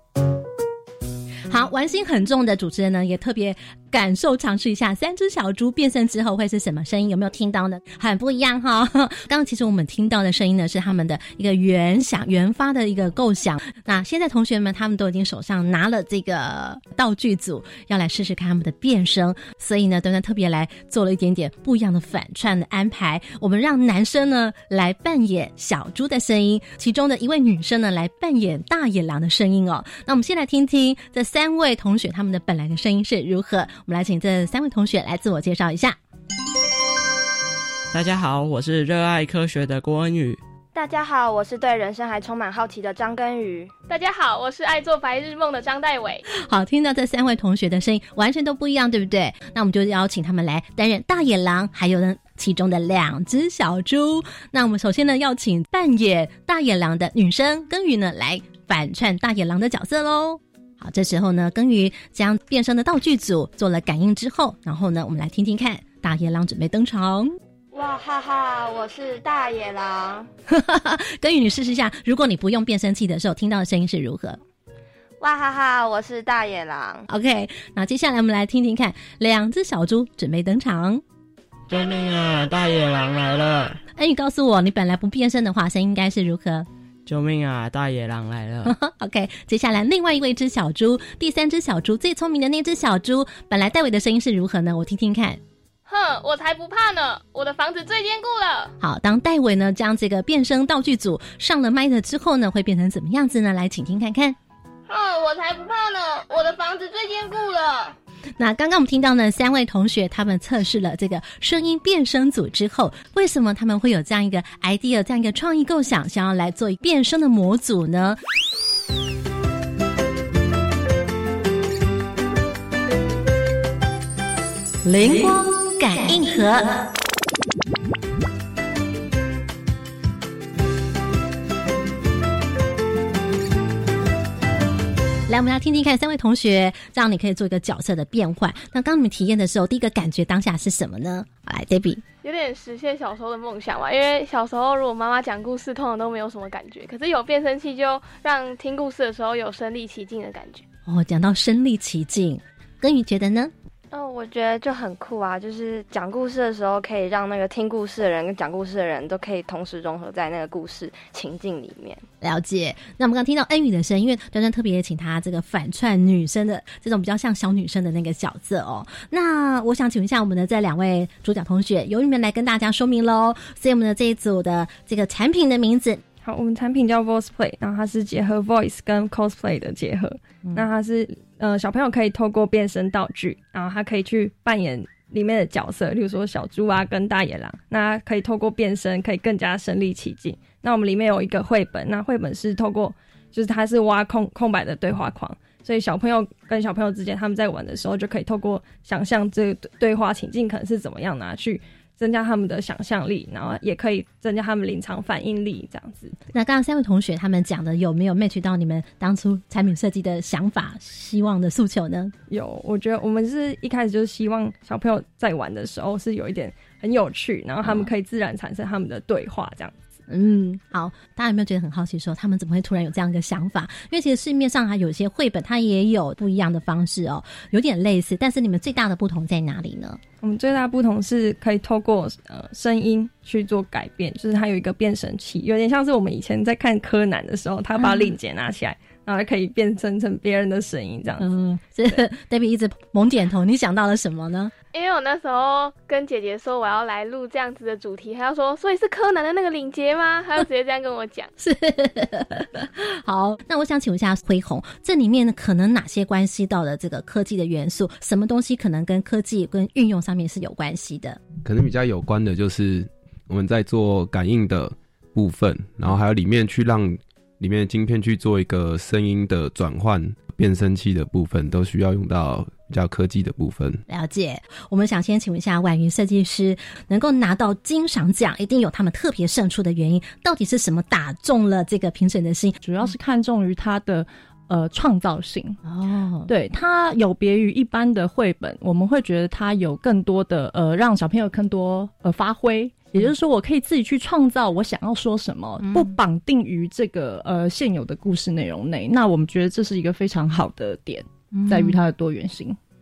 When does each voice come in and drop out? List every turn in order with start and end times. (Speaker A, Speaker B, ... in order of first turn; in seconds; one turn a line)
Speaker A: 1.5-36.0
Speaker B: 37.9-40.4
Speaker C: 40.7-43.7
Speaker D: 43.9-46.2
Speaker A: 46.3-67.4
Speaker C: 67.7-70.3
Speaker A: 70.5-74.4
Speaker C: 75.2-77.0
Speaker A: 77.1-81.0
Speaker B: 81.7-83.8
Speaker A: 84.0-86.7
Speaker B: 87.1-88.8
Speaker A: 88.7-95.4
Speaker D: 95.9-98.7
Speaker A: 98.8-104.4
Speaker D: 104.9-108.0
Speaker A: 108.4-118.2
Speaker A: 124.8-126.8
Speaker A: 135.3-142.0
Speaker D: 142.2-150.6
Speaker A: 150.9-153.5
Speaker C: 153.9-162.0
Speaker A: 162.2-176.0
Speaker E: 176.2-206.2
Speaker A: 206.3-212.1
Speaker E: 212.3-219.8
Speaker A: 220.1-230.0
Speaker E: 230.2-241.3
Speaker A: 237.8-238.1
Speaker A: 241.2-244.5
Speaker D: 244.7-251.3
Speaker A: 251.4-261.2
Speaker F: 261.4-273.8
Speaker A: 273.9-282.9
Speaker G: 282.6-285.6
Speaker A: 285.6-286.3
Speaker G: 286.3-302.6
Speaker A: 295.6-295.9
Speaker A: 301.3-301.8